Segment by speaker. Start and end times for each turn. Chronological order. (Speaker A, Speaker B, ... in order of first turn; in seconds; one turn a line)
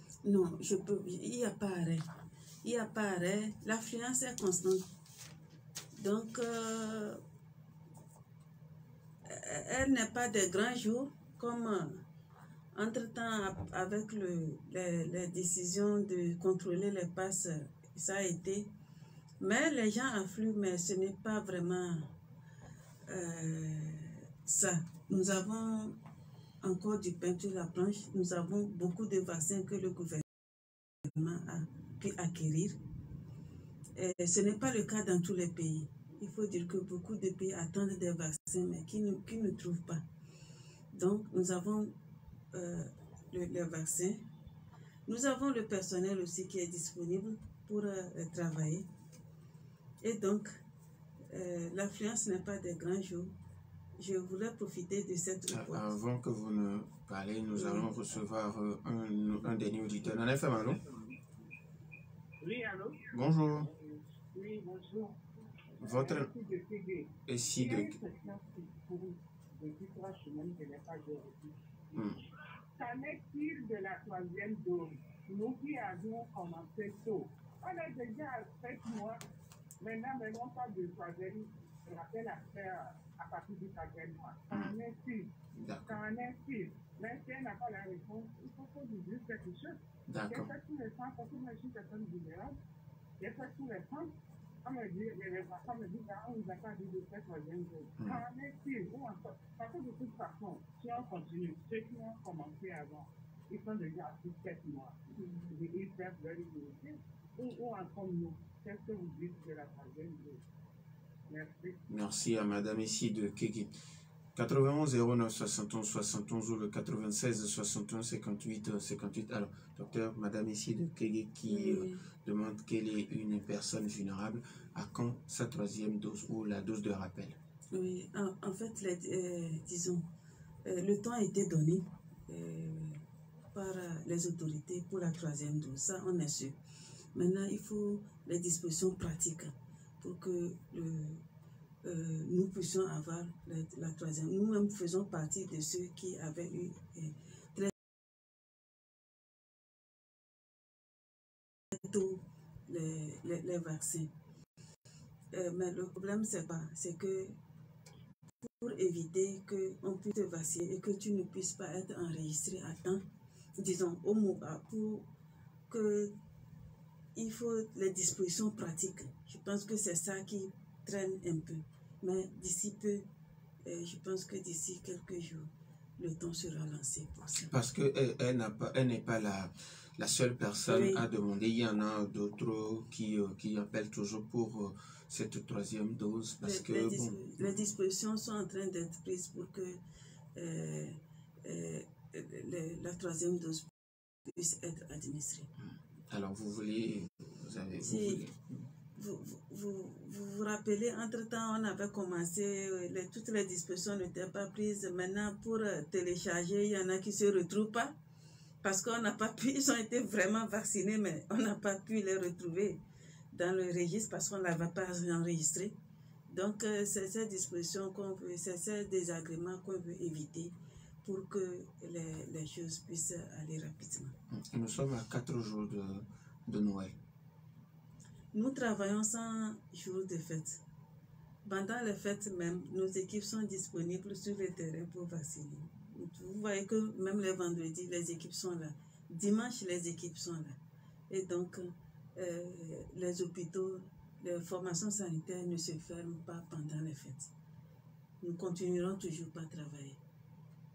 Speaker A: 0.2-2.0
Speaker A: 2.6-4.8
Speaker A: 6.0-7.2
Speaker A: 9.2-12.0
Speaker A: 12.7-18.7
Speaker A: 19.4-22.1
Speaker A: 23.1-26.0
Speaker A: 26.6-30.2
Speaker A: 31.0-32.8
Speaker A: 34.0-40.0
Speaker A: 40.9-41.9
Speaker A: 42.5-44.2
Speaker A: 45.1-48.9
Speaker A: 50.0-50.5
Speaker A: 51.3-53.3
Speaker A: 54.0-55.9
Speaker B: 55.5-60.8
Speaker A: 57.5-57.9
Speaker C: 62.4-65.2
Speaker B: 63.1-63.7
Speaker C: 65.7-71.5
Speaker B: 65.8-66.3
Speaker B: 67.3-68.0
Speaker B: 71.9-72.2
Speaker C: 72.8-79.2
Speaker C: 79.8-85.3
Speaker B: 84.5-84.8
Speaker B: 85.5-86.0
Speaker C: 85.8-92.6
Speaker B: 90.1-90.5
Speaker C: 93.2-94.1
Speaker C: 94.6-110.4
Speaker A: 105.1-105.5
Speaker C: 111.3-111.8
Speaker B: 111.9-113.7
Speaker B: 114.3-127.4
Speaker A: 121.5-122.0
Speaker A: 127.7-130.1
Speaker A: 130.6-133.0
Speaker A: 133.5-136.5
Speaker A: 137.1-141.2
Speaker A: 141.8-147.7
Speaker A: 151.7-154.1
Speaker A: 155.3-157.3
Speaker A: 158.4-163.0
Speaker A: 163.6-165.1
Speaker A: 165.7-166.1
Speaker A: 167.2-173.0
Speaker A: 173.6-177.5
Speaker B: 177.5-187.6
Speaker A: 180.7-181.0
Speaker A: 186.4-189.8
Speaker A: 190.3-193.7
Speaker A: 194.2-195.5
Speaker B: 195.6-198.6
Speaker A: 197.8-198.2
Speaker A: 198.9-207.9
Speaker A: 208.6-212.8
Speaker A: 213.3-215.7
Speaker A: 216.3-224.1
Speaker B: 224.3-226.9
Speaker A: 228.3-230.6
Speaker A: 231.4-240.6
Speaker A: 241.1-247.3
Speaker A: 248.2-250.0